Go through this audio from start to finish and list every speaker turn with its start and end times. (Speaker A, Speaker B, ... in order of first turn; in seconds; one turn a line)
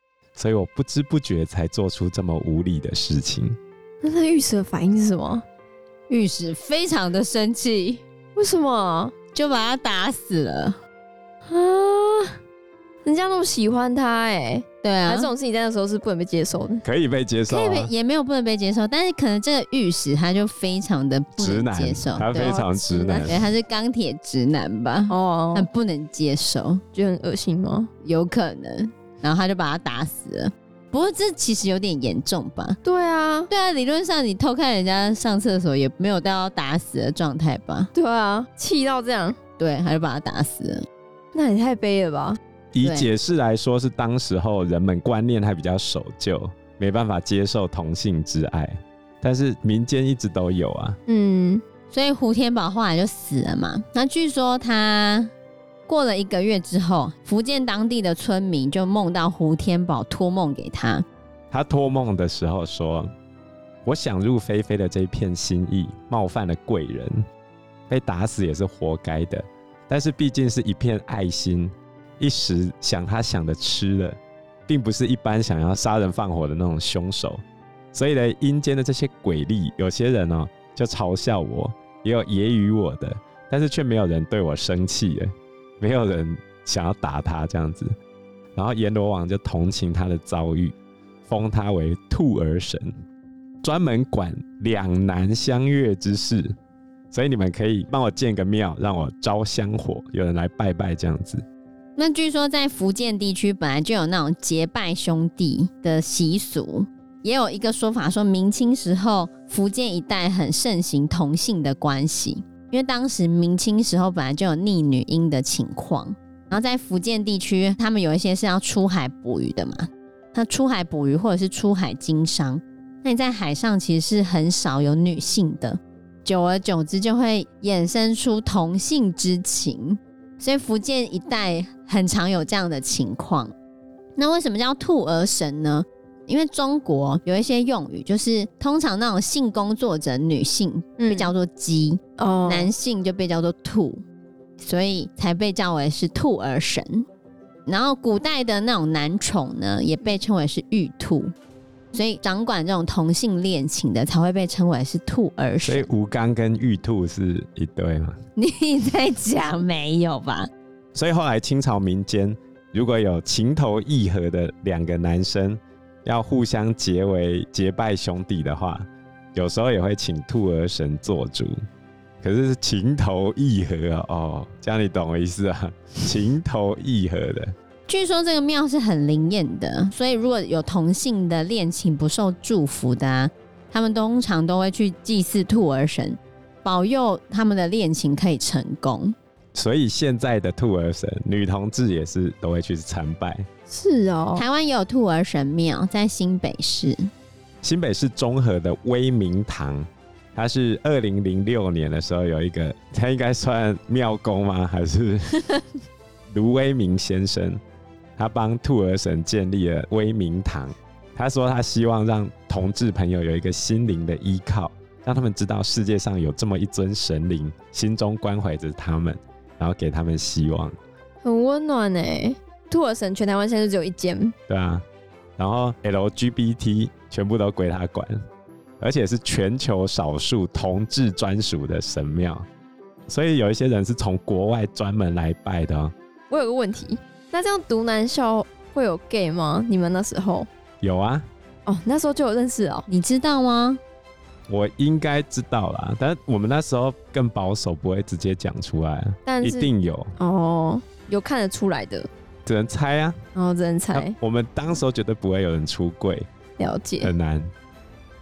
Speaker A: 0.4-3.6
Speaker B: 4.0-5.5
Speaker C: 6.1-8.0
Speaker B: 8.4-9.1
Speaker C: 9.3-10.8
Speaker B: 11.5-12.4
Speaker B: 13.1-16.8
Speaker C: 14.8-15.3
Speaker A: 16.8-17.9
Speaker C: 17.5-22.6
Speaker A: 21.4-23.4
Speaker B: 22.4-23.3
Speaker C: 23.2-26.8
Speaker B: 25.1-25.7
Speaker B: 26.9-27.9
Speaker C: 28.0-32.8
Speaker B: 32.8-33.5
Speaker C: 33.5-37.9
Speaker B: 38.0-39.4
Speaker C: 39.6-40.9
Speaker B: 41.3-42.4
Speaker A: 42.7-51.0
Speaker C: 42.8-43.1
Speaker B: 51.1-51.6
Speaker C: 51.9-55.3
Speaker C: 55.9-61.1
Speaker A: 61.5-63.1
Speaker A: 63.9-67.2
Speaker A: 67.9-77.4
Speaker A: 77.9-87.9
Speaker A: 88.5-90.8
Speaker A: 91.3-92.9
Speaker A: 93.6-96.5
Speaker A: 97.1-101.4
Speaker C: 102.0-133.5
Speaker C: 134.2-144.0
Speaker B: 141.0-141.3
Speaker B: 142.2-142.7
Speaker C: 144.6-147.1
Speaker C: 147.7-151.3
Speaker C: 151.9-155.9
Speaker A: 155.6-158.2
Speaker C: 158.4-160.5
Speaker A: 160.9-171.6
Speaker A: 172.2-177.5
Speaker C: 177.9-189.2
Speaker A: 189.6-193.5
Speaker B: 193.7-194.4
Speaker C: 194.3-197.1
Speaker A: 197.6-205.6
Speaker A: 206.3-207.6
Speaker A: 208.2-220.8
Speaker B: 221.2-224.3
Speaker A: 224.5-224.8
Speaker A: 225.4-228.2
Speaker A: 228.8-232.5
Speaker A: 233.1-235.9
Speaker B: 236.3-240.5
Speaker A: 240.8-241.3
Speaker B: 241.7-242.9
Speaker C: 242.9-243.8
Speaker A: 244.5-250.1
Speaker B: 249.3-252.1
Speaker A: 252.5-253.2
Speaker B: 253.3-254.2
Speaker A: 253.9-256.3
Speaker B: 256.6-257.1
Speaker A: 257.0-257.5